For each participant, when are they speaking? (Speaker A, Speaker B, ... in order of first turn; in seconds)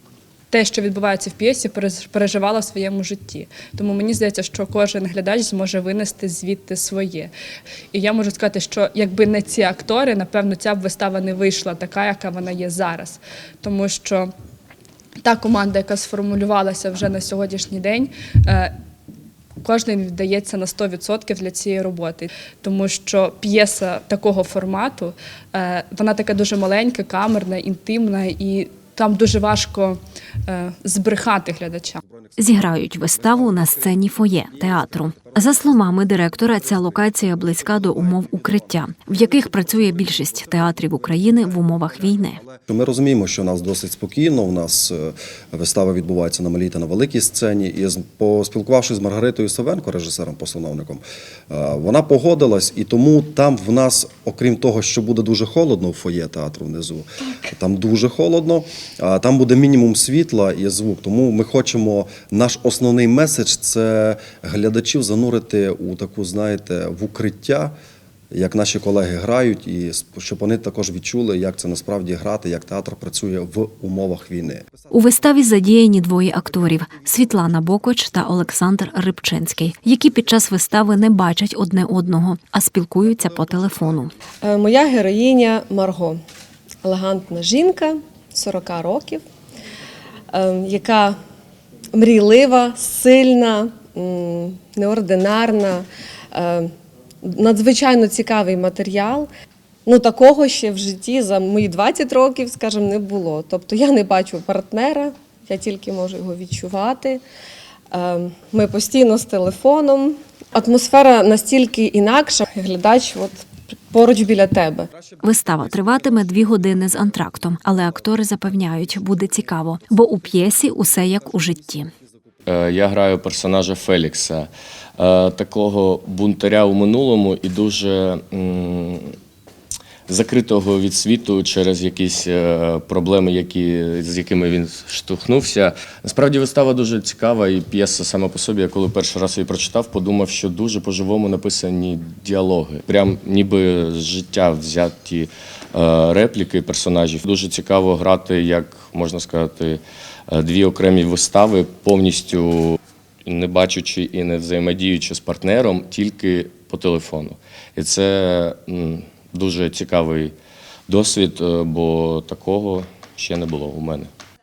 Speaker A: 0.5-7.3, 7.9-14.2, 15.2-18.7, 19.6-29.9, 30.5-32.0
Speaker B: 32.4-42.4, 74.9-84.1, 115.2-121.9
Speaker C: 42.4-67.8, 68.3-74.7
Speaker D: 84.4-86.2, 86.8-89.2, 90.3-91.2, 91.9-96.7, 97.2-99.3, 99.9-107.2, 107.9-114.9
Speaker E: 122.5-129.2, 130.1-160.3, 160.9-164.1